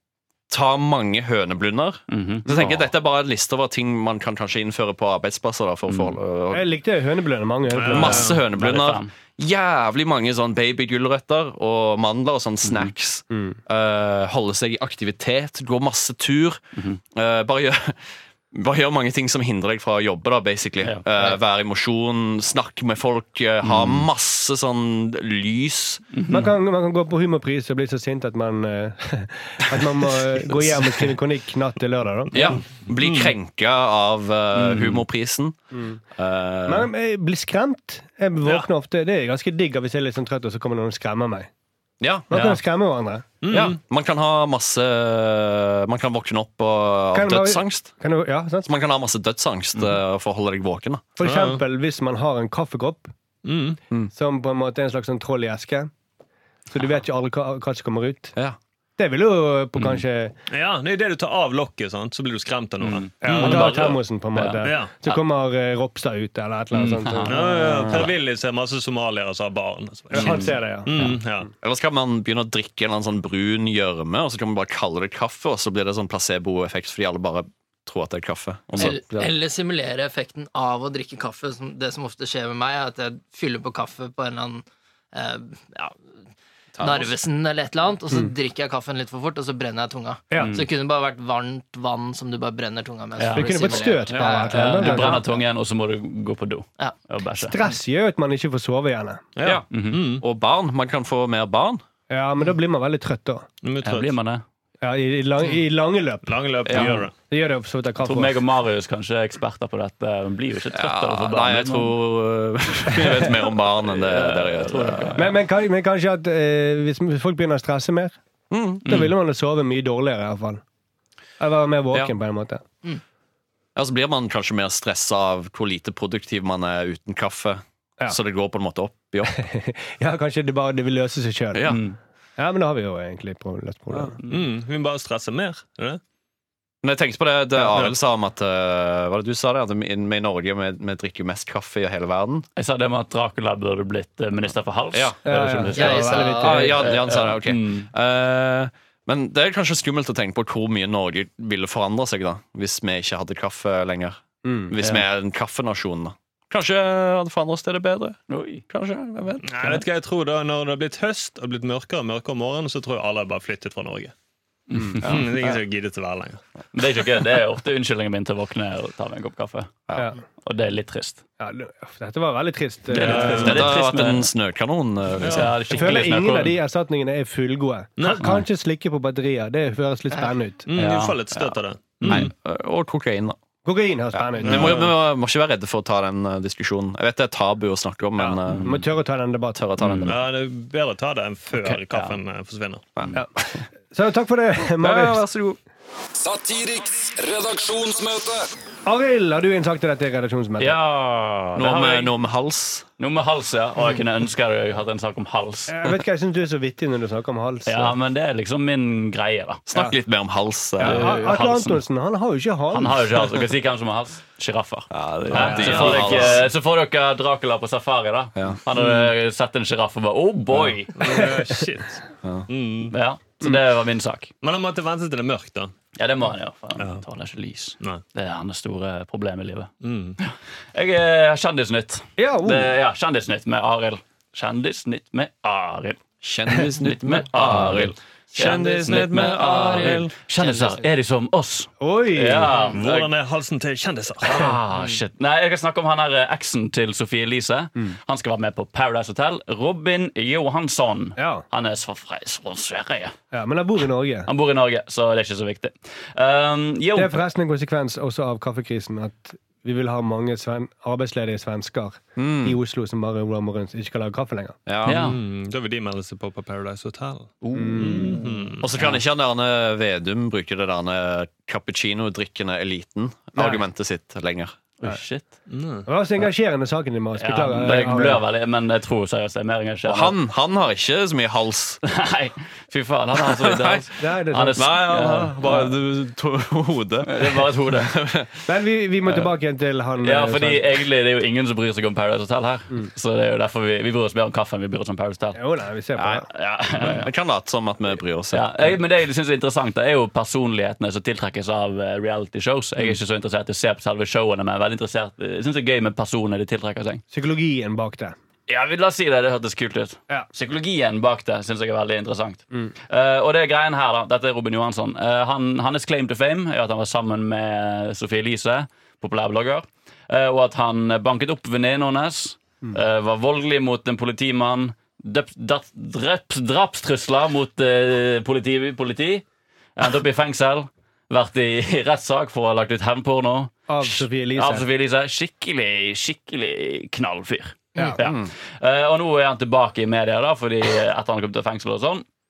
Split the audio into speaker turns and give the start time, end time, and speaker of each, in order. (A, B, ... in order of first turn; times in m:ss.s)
0:00.5-0:06.6 A
0:02.1-0:02.9 B
0:05.9-0:06.1 B
0:06.5-0:08.4 C
0:07.7-0:08.4 D
0:07.9-0:26.0 A
0:08.2-0:09.1 B
0:12.6-0:12.9 B
0:13.3-0:13.6 C
0:23.6-0:24.0 B
0:26.1-0:26.5 B
0:26.3-0:32.6 C
0:32.3-0:35.6 A
0:33.0-0:33.3 D
0:34.6-0:35.0 B
0:35.7-0:36.0 C
0:36.1-0:36.9 A
0:36.7-0:41.5 C
0:42.0-0:42.4 A
0:42.3-0:43.3 C
0:43.4-0:43.8 D
0:43.5-0:47.9 A
0:47.1-0:48.7 C
0:48.6-0:51.1 A
0:51.2-0:53.1 C
0:51.2-0:51.6 D
0:53.4-0:53.8 D
0:54.1-0:55.9 C
0:56.7-0:58.3 C
0:59.0-1:00.3 C
0:59.8-1:00.0 B
1:00.5-1:03.9 D
1:02.8-1:05.2 B
1:03.2-1:08.0 C
1:04.6-1:04.9 D
1:06.7-1:08.1 B
1:07.3-1:11.5 D
1:10.1-1:10.9 C
1:10.1-1:11.2 B
1:11.6-1:19.3 A
1:18.8-1:26.0 E
1:26.7-1:27.1 A
1:26.8-1:35.2 E
1:30.3-1:30.6 C
1:30.4-1:30.6 B
1:33.2-1:33.9 B
1:33.3-1:35.4 C
1:34.5-1:37.6 B
1:37.4-1:39.3 C
1:39.4-1:40.2 D
1:39.7-1:40.0 B
1:40.2-1:41.8 A
1:42.1-1:43.4 C
1:43.6-1:44.1 D
1:43.8-1:44.4 B
1:44.8-1:48.4 C
1:46.2-1:47.1 D
1:46.7-1:46.9 A
1:48.0-1:51.9 B
1:50.7-1:55.3 A
1:53.9-1:55.3 B
1:55.2-1:58.1 C
1:58.5-1:58.9 A
1:58.8-1:59.1 B
1:58.9-2:00.6 C
2:01.4-2:02.6 C
2:03.8-2:09.4 A
2:09.3-2:11.7 C
2:11.5-2:11.8 A
2:11.7-2:12.0 B
2:12.4-2:14.2 C
2:14.3-2:16.0 D
2:16.8-2:22.4 A
2:22.6-2:27.9 B
2:25.2-2:26.7 C
2:25.7-2:26.6 E
2:26.4-2:39.5 A
2:34.4-2:34.7 C
2:38.3-2:38.6 B
2:39.4-2:44.1 D
2:44.7-2:45.2 B
2:45.0-2:46.4 D
2:46.7-2:49.8 B
2:50.4-2:51.2 B
2:51.4-2:53.7 C
2:52.9-2:54.3 B
2:53.0-2:53.6 D
2:53.4-2:55.6 A
2:55.2-2:55.5 D
2:55.3-2:56.6 B
2:55.7-3:00.7 C
2:58.0-2:58.4 D
3:00.7-3:02.3 D
3:00.7-3:01.2 B
3:02.0-3:02.3 B
3:02.1-3:03.4 A
3:03.6-3:04.8 C
3:04.1-3:08.8 A
3:04.4-3:04.9 D
3:08.2-3:09.7 C
3:08.5-3:08.8 B
3:09.6-3:10.2 A
3:09.8-3:10.1 B
3:10.1-3:12.9 D
3:11.6-3:12.2 B
3:13.1-3:15.2 C
3:14.8-3:15.6 A
3:16.1-3:18.4 F
3:18.8-3:20.8 C
3:20.6-3:22.1 B
3:21.6-3:22.9 A
3:23.0-3:25.9 B
3:25.7-3:28.0 C
3:27.6-3:29.6 B
3:29.7-3:31.2 A
3:30.8-3:31.8 B
3:30.8-3:33.3 C
3:32.7-3:41.0 B
3:34.9-3:36.4 A
3:35.3-3:36.2 C
3:35.4-3:35.9 D
3:40.9-3:42.9 D
3:42.9-3:44.3 B
3:44.4-3:45.7 D
3:46.0-3:56.0 B
3:46.8-3:47.0 D
3:49.8-3:50.2 D
3:52.2-3:52.7 C
3:56.2-4:00.1 A
3:56.5-4:03.1 B
3:58.4-4:00.8 E
4:01.8-4:02.7 C
4:02.7-4:04.5 D
4:04.2-4:13.1 B
4:11.2-4:11.4 C
4:13.3-4:14.3 C
4:14.3-4:17.2 B
4:16.9-4:24.6 C
4:22.2-4:22.6 A
4:24.6-4:25.1 A
4:24.8-4:25.2 B
4:24.9-4:28.6 D
4:27.4-4:28.9 B
4:27.5-4:28.2 C
4:28.6-4:34.6 A
4:34.8-4:35.3 B
4:35.5-4:35.9 D
4:35.8-4:38.2 C
4:37.2-4:40.1 B
4:39.8-4:41.8 A
4:41.8-4:45.7 B
4:43.2-4:43.9 A
4:44.0-4:44.7 C
4:44.5-4:48.4 A
4:47.0-4:47.9 B
4:48.4-4:50.7 C
4:50.0-4:55.4 B
4:55.3-4:56.3 C
4:56.0-4:56.2 A
4:56.3-4:57.1 B
4:56.8-4:58.7 A
4:58.3-5:07.0 B
5:07.1-5:08.1 C
5:08.5-5:29.2 B
5:29.8-5:42.0 B
5:33.7-5:34.6 C
5:38.0-5:38.3 A